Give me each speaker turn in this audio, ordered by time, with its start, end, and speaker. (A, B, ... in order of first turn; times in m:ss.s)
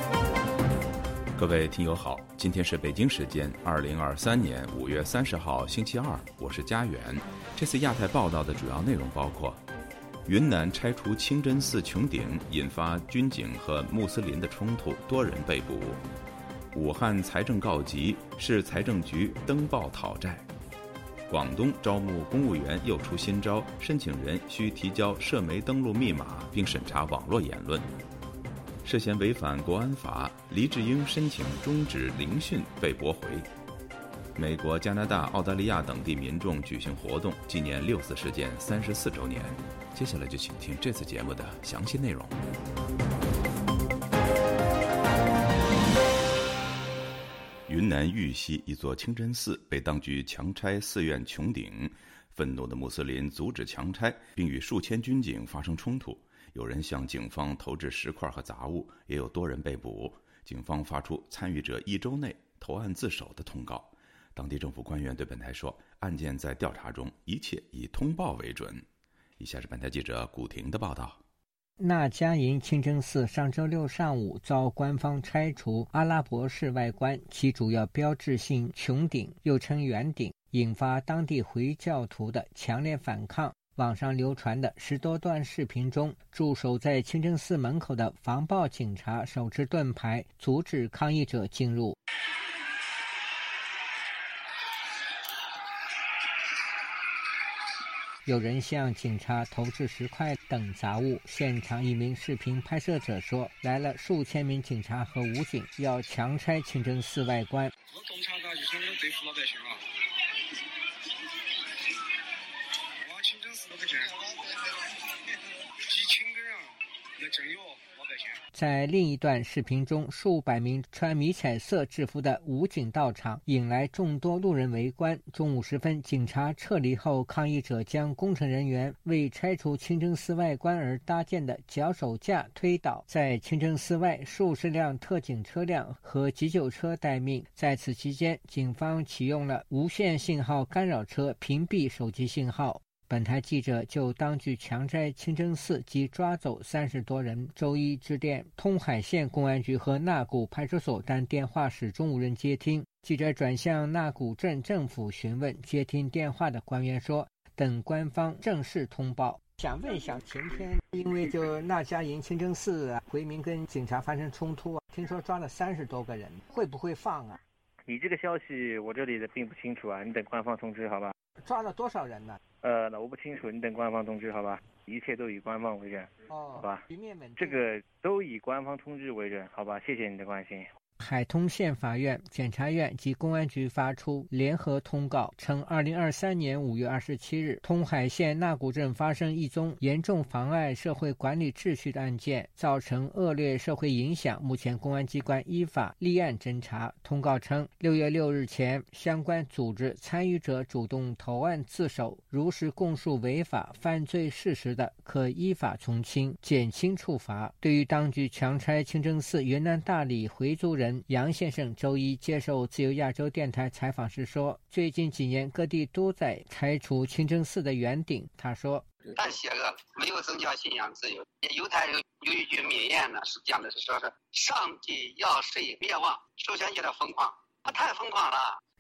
0:01.4-0:09.6 A
0:10.3-0:16.0 A
0:16.7-0:20.5 A
0:21.3-0:27.9 A
0:28.8-0:33.5 A
0:34.4-0:42.4 A
0:47.7-1:08.8 A
1:09.4-1:11.2 A
1:11.8-1:32.0 B
1:38.2-1:47.7 B
1:58.5-2:47.4 B
2:47.9-2:51.1 C
2:51.4-2:52.4 B
2:52.6-2:56.8 C
2:56.3-2:57.6 B
2:57.4-3:00.7 C
3:01.0-3:38.8 B
3:39.2-3:48.6 D